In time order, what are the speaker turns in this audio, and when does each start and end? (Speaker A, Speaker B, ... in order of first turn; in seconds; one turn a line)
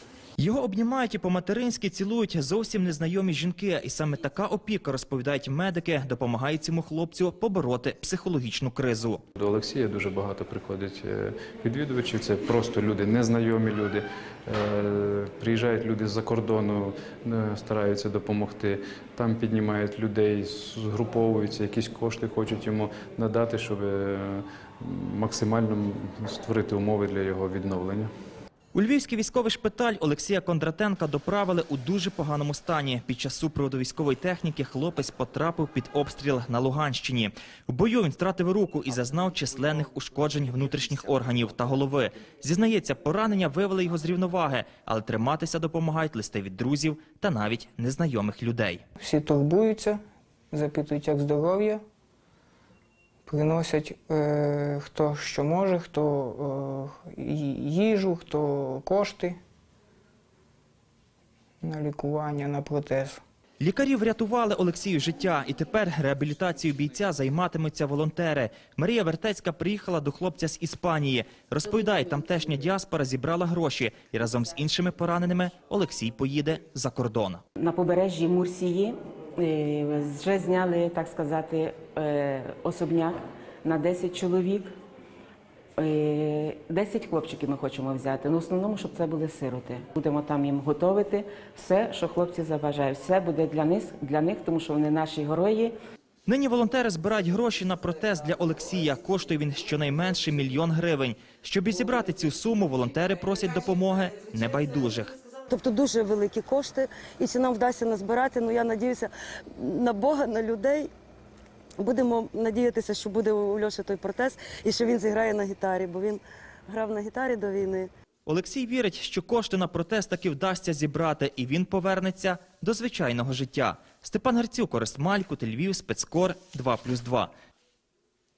Speaker A: 0.4-9.2
Speaker B: 9.3-28.1
Speaker A: 28.7-48.8
Speaker C: 49.0-50.0
Speaker C: 50.5-51.8
Speaker C: 53.2-59.4
Speaker C: 61.6-63.2
Speaker A: 63.6-77.4
Speaker D: 77.6-84.7
Speaker D: 85.8-95.7
Speaker A: 96.2-105.2
Speaker E: 105.5-110.9
Speaker E: 111.8-117.9
Speaker A: 118.2-127.3